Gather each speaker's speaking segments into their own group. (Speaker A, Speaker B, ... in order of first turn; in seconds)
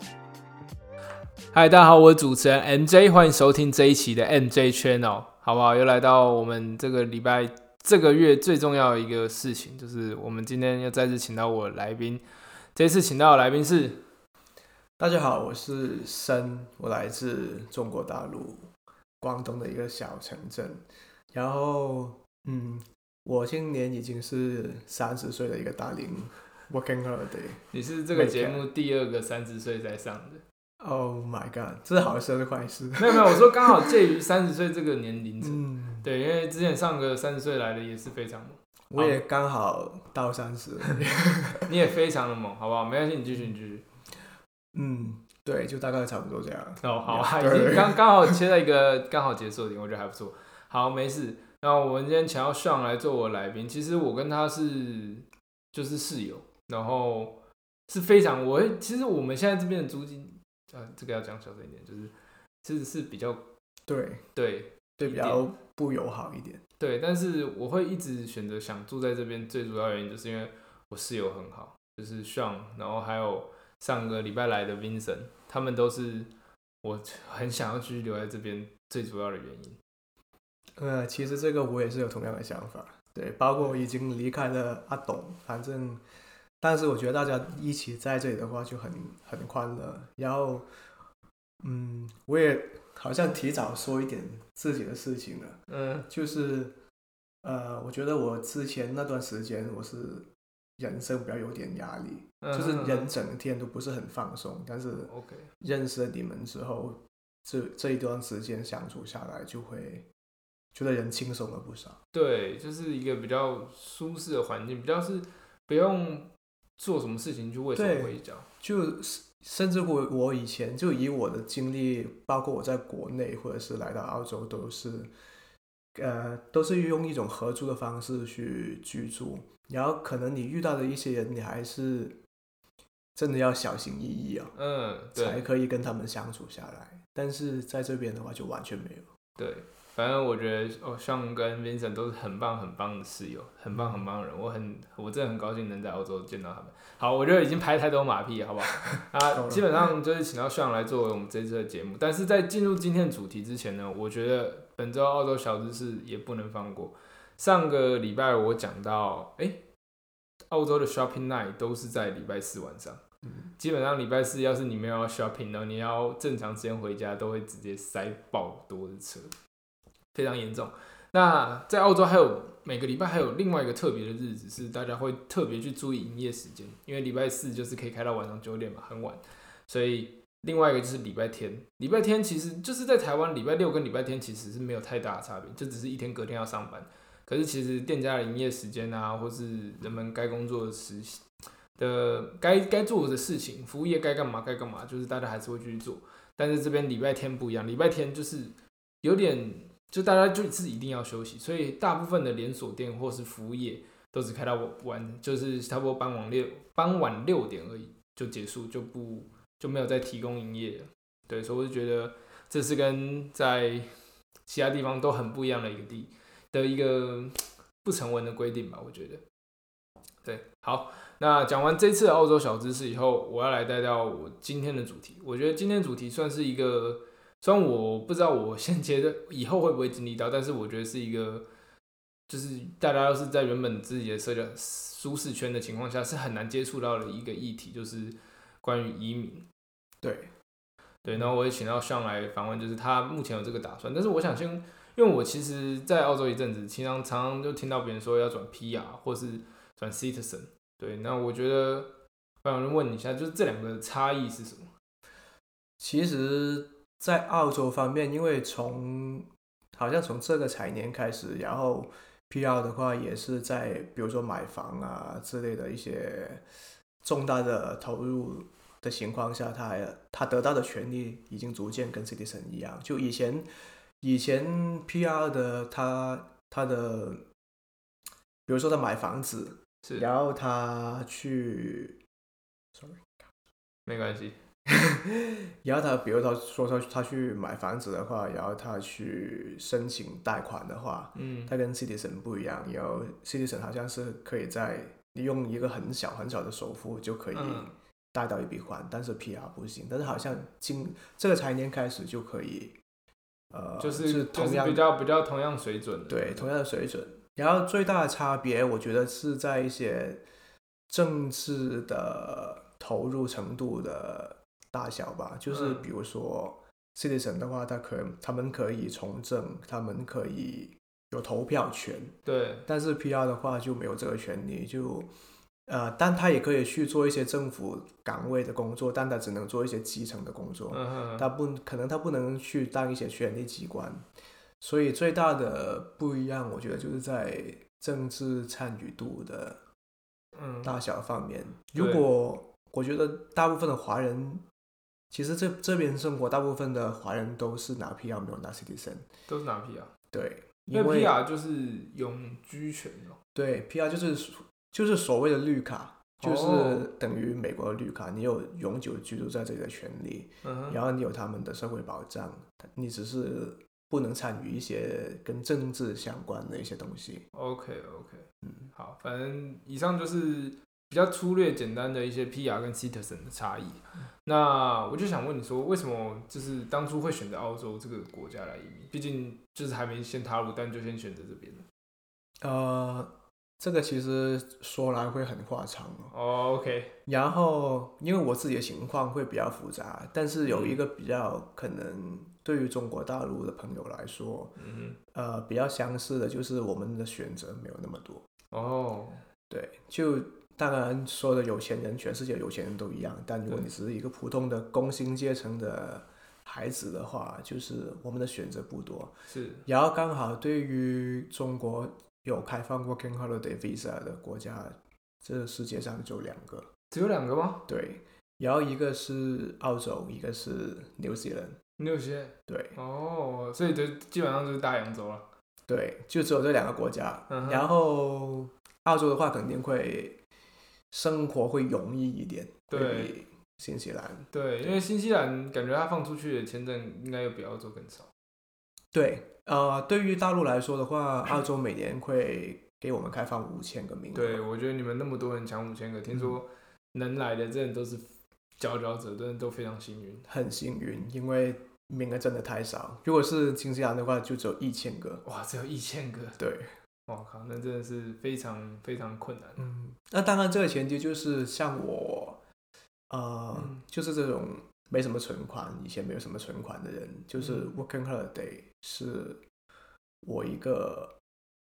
Speaker A: 1.5-12.2, 12.7-14.0, 27.7-30.4, 33.0-39.2, 41.6-43.8, 46.8-57.3, 57.9-62.1, 62.6-63.4, 64.3-65.5, 66.8-76.3, 76.8-79.8, 95.7-96.1, 102.4-103.1, 105.0-105.5, 112.1-118.5, 134.5-135.5, 139.4-159.6, 160.5-163.0, 163.6-169.3, 170.1-191.2, 191.8-213.9, 214.4-219.2, 220.2-231.4, 232.3-239.4, 241.0-251.9, 252.4-254.7, 279.8-280.1, 283.9-284.4, 291.1-291.5, 297.3-297.7, 303.8-306.5, 315.5-315.9, 322.2-322.7, 330.7-331.3, 340.3-340.7, 341.7-342.1, 349.3-349.9, 350.7-353.2, 356.2-356.9, 360.4-360.8, 367.3-381.6, 386.1-386.9, 390.5-390.8, 394.6-395.0, 398.5-399.2, 409.3-409.6, 416.9-417.6, 421.8-425.2, 427.3-427.7, 432.7-433.2, 434.3-438.1, 444.1-448.0, 448.6-450.3, 455.2-456.4, 457.1-459.6, 463.5-463.8, 467.4-467.7
Speaker B: 15.0-18.7, 19.2-20.8, 21.3-27.6, 28.1-28.6, 30.8-33.9, 35.4-36.0, 38.9-41.7, 44.7-48.4, 63.9-64.2, 65.0-66.6, 80.8-86.0, 86.6-90.7, 91.6-95.6, 96.1-96.7, 97.4-100.3, 100.8-110.1, 110.7-112.0, 117.7-125.1, 126.0-132.2, 133.1-134.5, 135.1-139.1, 143.7-144.0, 149.3-149.7, 240.0-240.3, 255.8-266.4, 267.0-273.5, 274.0-277.2, 278.5-282.0, 282.7-283.1, 284.7-302.8, 303.5-304.8, 306.1-310.2, 310.9-322.1, 322.7-325.1, 325.7-334.0, 334.6-339.6, 340.6-344.4, 345.1-349.0, 350.1-351.1, 353.3-367.2, 382.4-386.1, 387.1-394.5, 395.1-398.2, 399.5-409.1, 409.6-416.7, 417.7-421.6, 422.5-422.8, 425.7-430.2, 430.9-434.8, 438.9-444.4, 450.3-455.2, 456.4-456.6, 459.6-462.4, 463.1-469.4, 470.2-471.1